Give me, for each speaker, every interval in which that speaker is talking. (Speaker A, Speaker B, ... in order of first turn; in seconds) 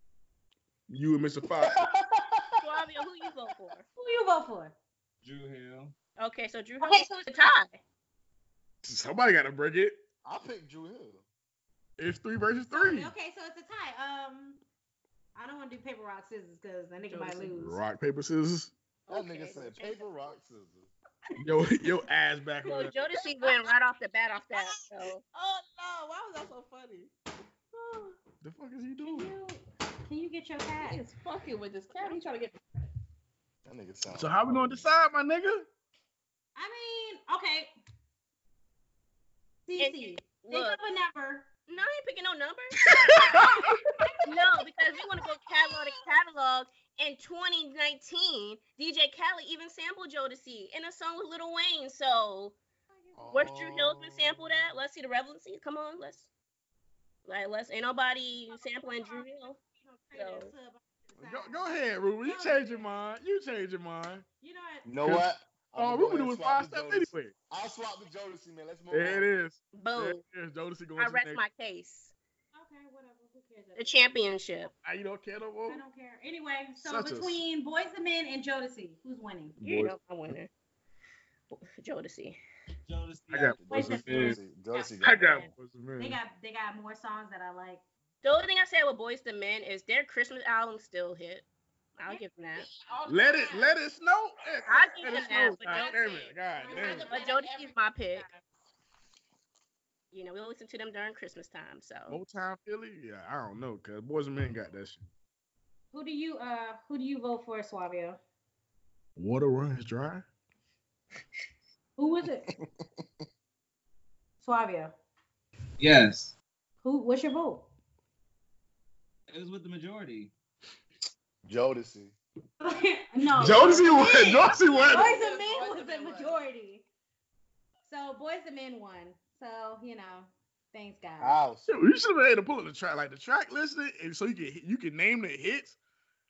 Speaker A: 0.9-1.8, 8.8-10.0, 12.0-13.1, 17.6-18.7, 21.4-23.0, 28.4-29.3, 34.1-35.7, 43.1-43.4, 61.2-64.2, 65.8-67.3, 68.9-71.4, 74.8-75.8, 76.8-77.4, 79.6-80.0, 83.3-84.4, 85.0-86.2, 93.1-97.2, 102.1-105.1, 109.2-110.2, 123.3-125.2, 131.7-135.8
Speaker B: 1.4-2.7, 10.2-11.2, 19.1-20.9, 33.6-34.9, 53.1-54.6, 64.8-69.3, 83.6-85.4, 112.6-113.0, 121.5-122.2, 123.4-124.1, 131.2-131.7
Speaker C: 2.6-3.9, 6.2-7.8, 19.1-20.2, 22.6-25.2, 39.8-40.8, 41.7-42.8, 44.3-52.6, 53.3-56.3, 57.3-59.6, 60.1-60.5, 69.7-70.2, 71.0-72.1, 73.8-74.7, 79.6-80.5, 81.5-82.4, 88.2-91.5, 92.0-92.7, 94.7-96.3, 96.9-98.3, 100.1-102.2
Speaker D: 4.0-4.8, 6.8-7.3, 12.7-14.6, 15.3-17.8, 29.0-31.0, 36.6-37.7, 39.7-41.5, 43.2-44.9, 52.9-53.5, 58.5-63.1, 64.4-64.9, 72.5-74.0, 75.7-79.6, 83.7-84.4, 85.1-87.8, 96.5-97.4, 105.9-108.2, 112.0-112.5, 114.4-114.9, 116.8-117.7, 122.6-126.8, 127.9-131.4
Speaker E: 5.2-6.0, 82.9-83.6, 115.8-116.3, 119.3-120.3
Speaker F: 17.1-17.6, 24.5-27.1, 27.8-28.2, 30.8-32.6, 92.1-93.8, 95.0-98.4, 123.9-126.4